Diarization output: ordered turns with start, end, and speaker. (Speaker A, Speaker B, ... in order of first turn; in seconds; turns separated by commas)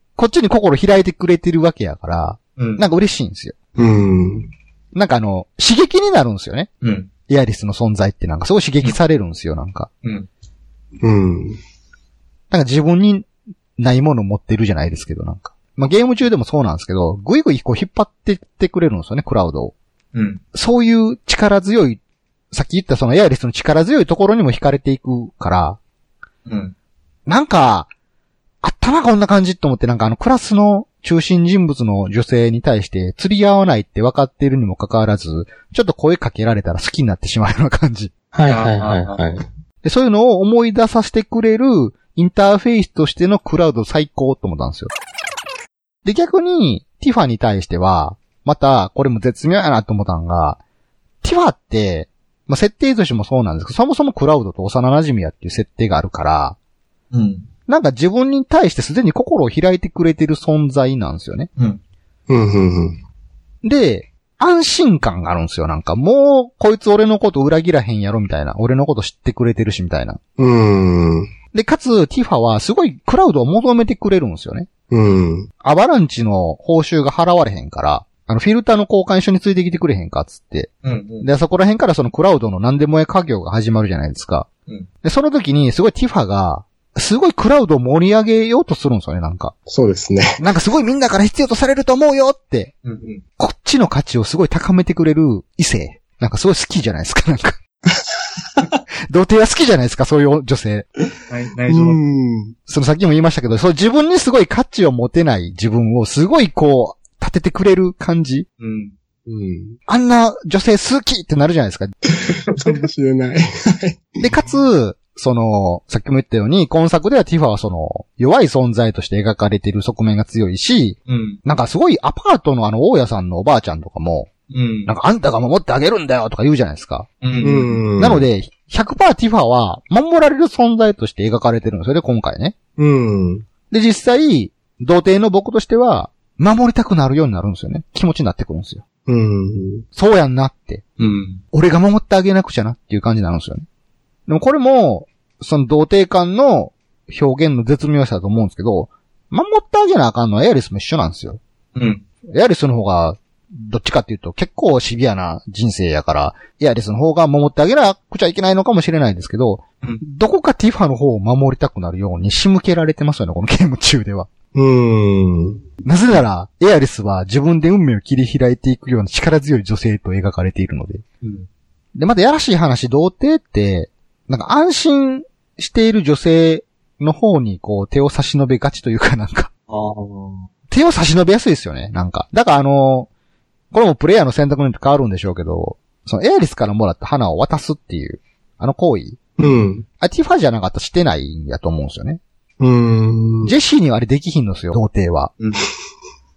Speaker A: 0.2-3.6, Speaker B: 2.6-2.8, Speaker C: 3.8-4.5, Speaker A: 4.9-6.7, Speaker B: 6.8-7.1, Speaker A: 7.3-9.9, Speaker C: 11.0-11.6, Speaker A: 12.5-13.3, Speaker A: 13.8-19.8, Speaker B: 20.1-20.4, Speaker A: 20.5-22.0, Speaker A: 22.5-25.8, Speaker B: 26.5-26.7, Speaker A: 27.3-27.9, Speaker A: 28.6-38.1, Speaker C: 38.3-39.4, Speaker B: 38.5-39.2, Speaker A: 39.8-44.9, Speaker A: 46.0-50.6, Speaker A: 51.2-56.6, Speaker B: 57.1-57.5, Speaker A: 57.7-61.5, Speaker C: 62.3-63.0, Speaker A: 63.6-70.2, Speaker C: 70.4-71.3, Speaker A: 71.5-74.7, Speaker C: 74.9-75.5, Speaker A: 75.6-80.7, Speaker B: 80.8-81.3, Speaker A: 81.2-84.5, Speaker A: 85.0-89.5, Speaker C: 89.7-90.4, Speaker A: 90.4-92.7, Speaker B: 92.8-93.2, Speaker A: 93.4-97.6, Speaker A: 99.1-100.9, Speaker B: 101.3-102.0, Speaker C: 101.7-102.5, Speaker A: 102.7-108.5, Speaker B: 108.6-108.9, Speaker C: 109.3-109.8, Speaker A: 109.9-111.9, Speaker C: 112.3-114.2, Speaker A: 114.2-124.3, Speaker B: 121.1-121.4, Speaker B: 124.5-124.9, Speaker A: 124.9-127.1, Speaker B: 127.2-127.8, Speaker C: 127.4-128.2, Speaker A: 128.0-132.6, Speaker C: 132.8-133.5, Speaker A: 133.7-138.8, Speaker C: 139.1-139.9, Speaker A: 139.9-140.8, Speaker B: 141.0-141.4, Speaker A: 141.5-143.7, Speaker A: 144.3-151.4, Speaker B: 151.8-152.0, Speaker A: 152.3-164.3, Speaker C: 164.5-165.6, Speaker A: 165.8-171.0, Speaker B: 171.2-171.5, Speaker A: 172.0-179.5, Speaker B: 179.7-180.4, Speaker A: 180.7-183.1, Speaker A: 183.7-189.2, Speaker C: 189.4-189.9, Speaker A: 190.0-192.2, Speaker C: 192.6-193.5, Speaker A: 193.4-195.3